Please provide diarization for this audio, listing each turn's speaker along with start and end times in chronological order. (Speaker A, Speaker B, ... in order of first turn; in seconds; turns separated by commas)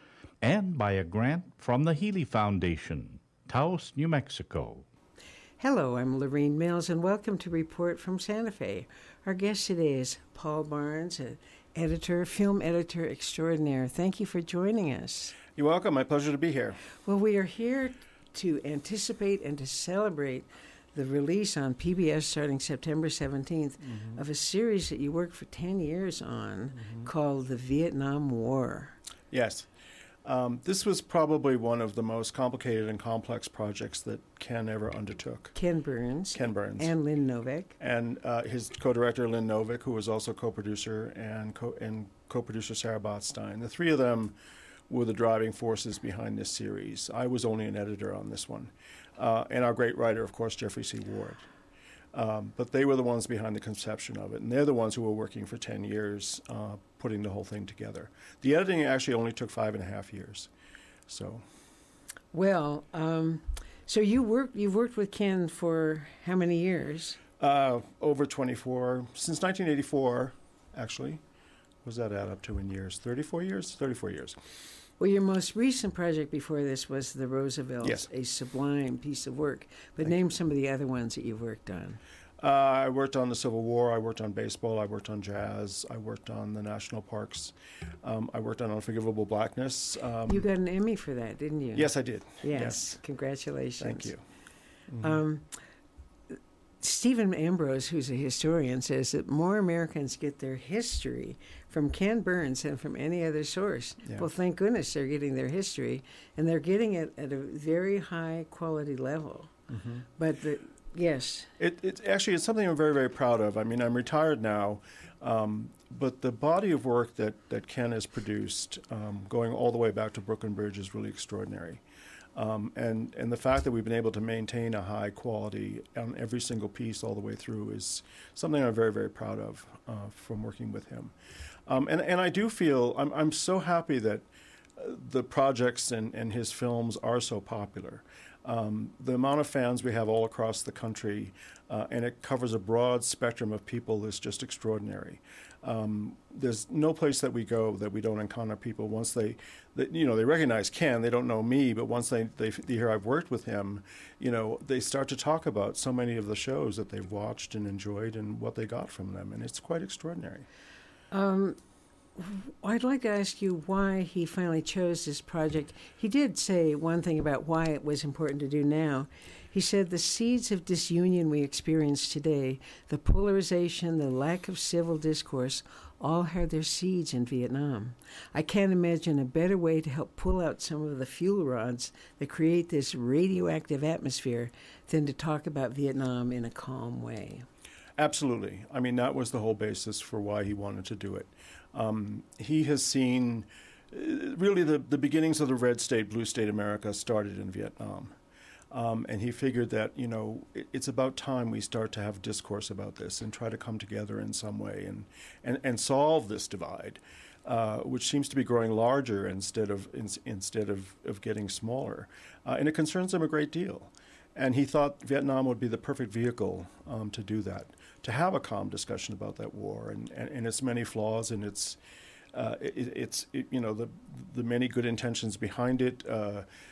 Speaker A: 0.4-4.8, Speaker B: 5.6-15.4, Speaker C: 15.6-16.8, Speaker B: 17.1-29.0, Speaker C: 23.9-24.2, Speaker C: 26.8-27.1, Speaker C: 29.3-29.7, Speaker C: 30.2-35.5, Speaker B: 35.5-37.8, Speaker C: 36.3-36.9, Speaker C: 37.8-44.4, Speaker C: 44.9-51.5, Speaker C: 52.1-60.5, Speaker C: 61.1-61.4, Speaker B: 62.3-67.2, Speaker C: 67.4-71.2, Speaker C: 71.8-74.4, Speaker B: 75.0-82.0, Speaker C: 77.8-78.1, Speaker C: 82.4-90.5, Speaker B: 90.3-94.1, Speaker C: 91.8-92.9, Speaker C: 93.8-94.2, Speaker C: 94.9-95.2, Speaker B: 95.0-95.5, Speaker B: 96.3-109.5, Speaker C: 109.7-110.0, Speaker B: 110.2-111.5, Speaker C: 111.6-121.8, Speaker C: 122.3-131.1, Speaker C: 131.7-134.3, Speaker C: 134.8-160.5, Speaker B: 161.1-161.6, Speaker B: 162.2-187.4, Speaker C: 188.0-198.2, Speaker C: 198.7-221.8, Speaker C: 222.3-226.5